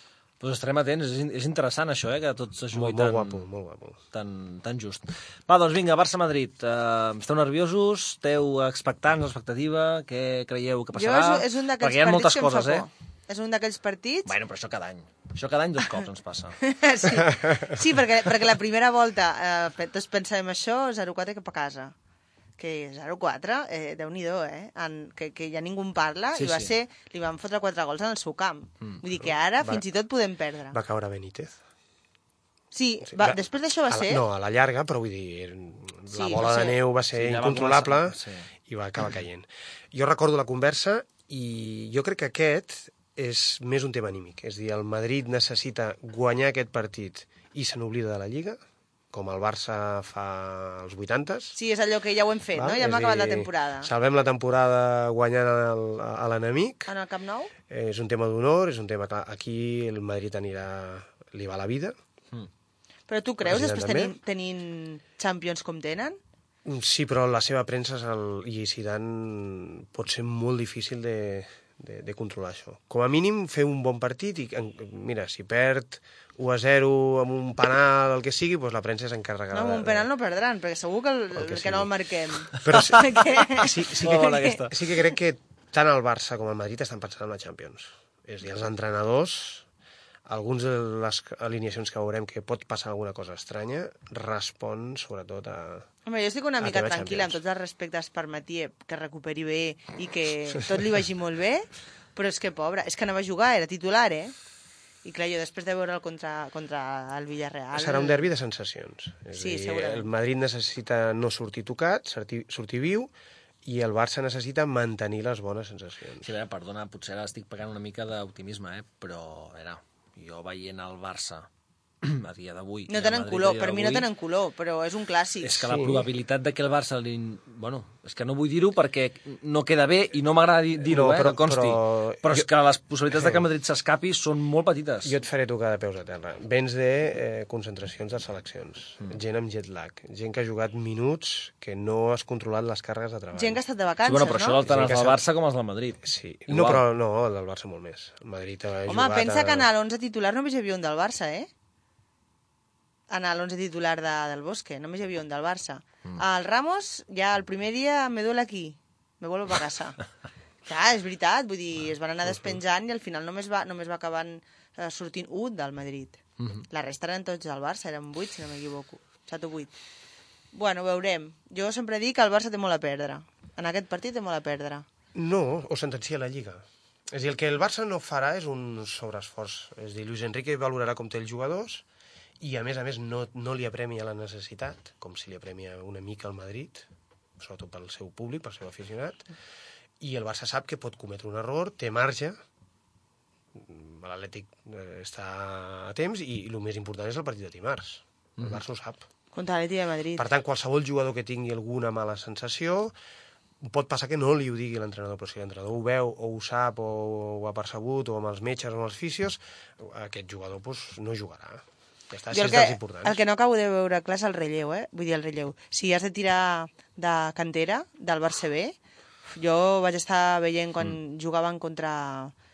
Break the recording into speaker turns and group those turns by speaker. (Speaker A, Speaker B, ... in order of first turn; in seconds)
Speaker A: 0.4-3.4, 4.1-12.9, 14.2-16.6, 26.3-26.7, 37.1-38.5, 83.6-84.9, 116.2-121.5, 122.0-124.1, 125.4-135.1, 144.0-146.8, 166.4-166.6
Speaker B: 2.7-4.0, 29.2-29.8, 30.7-31.6, 33.1-48.6, 49.1-51.6, 52.5-56.9, 57.7-62.0, 63.4-64.1, 66.6-80.1, 81.3-81.9, 82.6-89.7, 90.2-95.9, 96.6-97.4, 107.7-113.1, 113.6-116.3, 125.6-126.1, 130.8-132.5, 133.1-133.4, 135.0-143.6, 144.6-145.2, 146.0-149.7, 175.1-181.8, 182.4-186.8, 187.4-189.3, 190.0-192.4, 193.5-199.1, 200.2-202.9, 203.6-213.2
Speaker C: 10.9-14.3, 16.6-21.9, 22.6-30.8, 32.7-34.2, 36.1-36.8, 51.5-53.9, 56.9-57.5, 63.1-66.2, 79.5-84.6, 96.0-104.3, 105.0-108.2, 109.3-110.1, 122.9-125.7, 143.3-144.6, 148.9-151.5, 153.1-160.0, 160.7-169.7, 170.5-174.8, 199.3-200.3, 212.3-218.8, 219.3-222.3